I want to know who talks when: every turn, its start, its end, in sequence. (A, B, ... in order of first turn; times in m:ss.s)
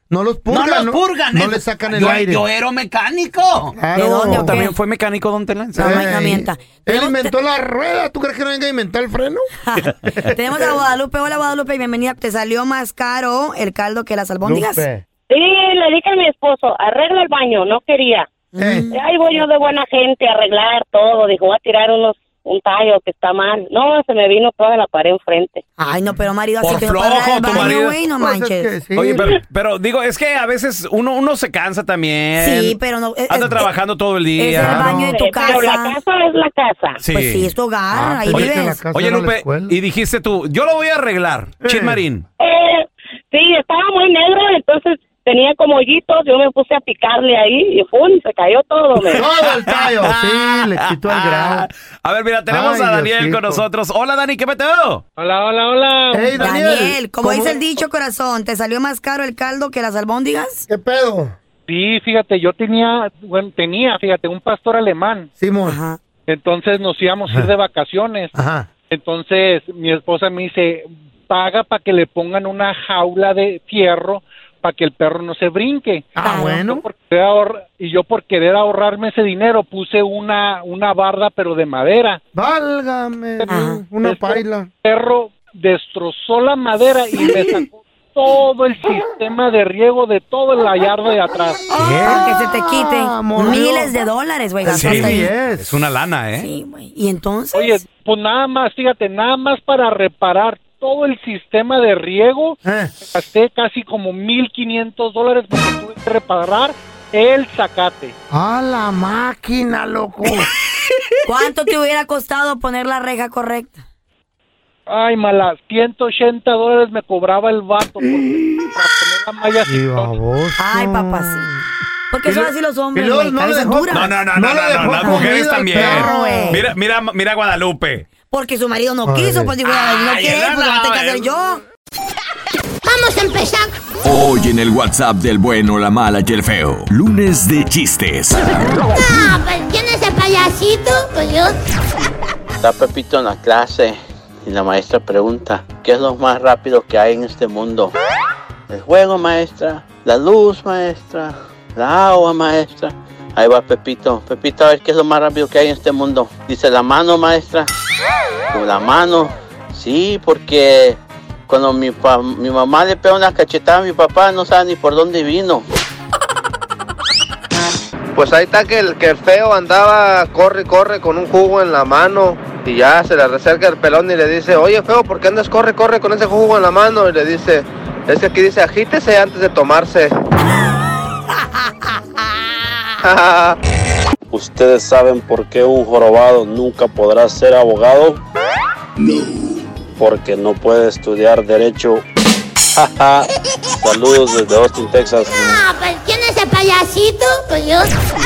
0:00.1-0:02.4 A
0:00.5-0:06.1 B
0:03.8-0:04.7 A
0:04.0-0:04.7 C
0:05.8-0:09.5 A
0:05.8-0:07.3 C
0:09.7-0:14.8 C
0:10.1-0:10.4 A
0:14.4-0:15.0 A
0:15.3-0:18.3 D
0:18.5-0:19.0 C
0:18.6-0:18.9 A
0:18.9-0:25.6 D
0:25.8-0:28.7 C
0:26.6-0:28.0 B
0:27.5-0:29.3 A
0:29.0-0:32.8 B
0:32.4-0:33.7 C
0:33.3-0:35.0 B
0:34.4-0:36.0 C
0:34.6-0:35.2 A
0:35.1-0:37.0 D
0:37.0-0:37.5 B
0:37.1-0:38.8 C
0:37.9-0:39.8 A
0:38.3-0:42.2 B
0:41.6-0:42.0 A
0:42.4-0:49.2 D
0:49.1-0:55.0 B
0:49.1-0:51.7 A
0:52.5-0:53.6 A
0:55.2-0:56.7 E
0:56.1-0:57.6 A
0:56.4-1:00.6 C
1:00.7-1:01.4 A
1:01.7-1:05.3 E
1:05.4-1:05.8 A
1:05.6-1:06.0 C
1:06.3-1:08.3 E
1:08.3-1:08.7 A
1:08.9-1:16.1 E
1:16.2-1:16.8 A
1:16.2-1:16.7 C
1:16.7-1:22.2 E
1:22.3-1:24.7 A
1:23.5-1:23.8 C
1:24.0-1:31.6 E
1:31.7-1:33.9 A
1:31.8-1:32.2 B
1:32.0-1:35.3 C
1:34.6-1:35.8 A
1:34.6-1:36.5 B
1:36.4-1:37.8 C
1:37.5-1:48.1 E
1:42.6-1:42.9 A
1:48.3-1:50.5 A
1:51.3-1:53.8 C
1:54.9-2:00.1 E
1:58.0-1:58.7 A
1:59.6-2:01.6 A
2:00.6-2:01.5 C
2:02.1-2:04.1 C
2:03.0-2:06.6 A
2:03.9-2:08.1 B
2:05.0-2:06.6 C
2:08.3-2:11.6 C
2:09.0-2:09.6 A
2:09.6-2:11.2 B
2:12.8-2:13.7 F
2:14.0-2:18.7 G
2:19.1-2:21.6 F
2:22.6-2:27.9 H
2:28.7-2:37.7 H
2:38.5-2:45.6 H
2:48.2-3:00.1 I
3:03.0-3:03.6 I
3:15.3-3:17.9 F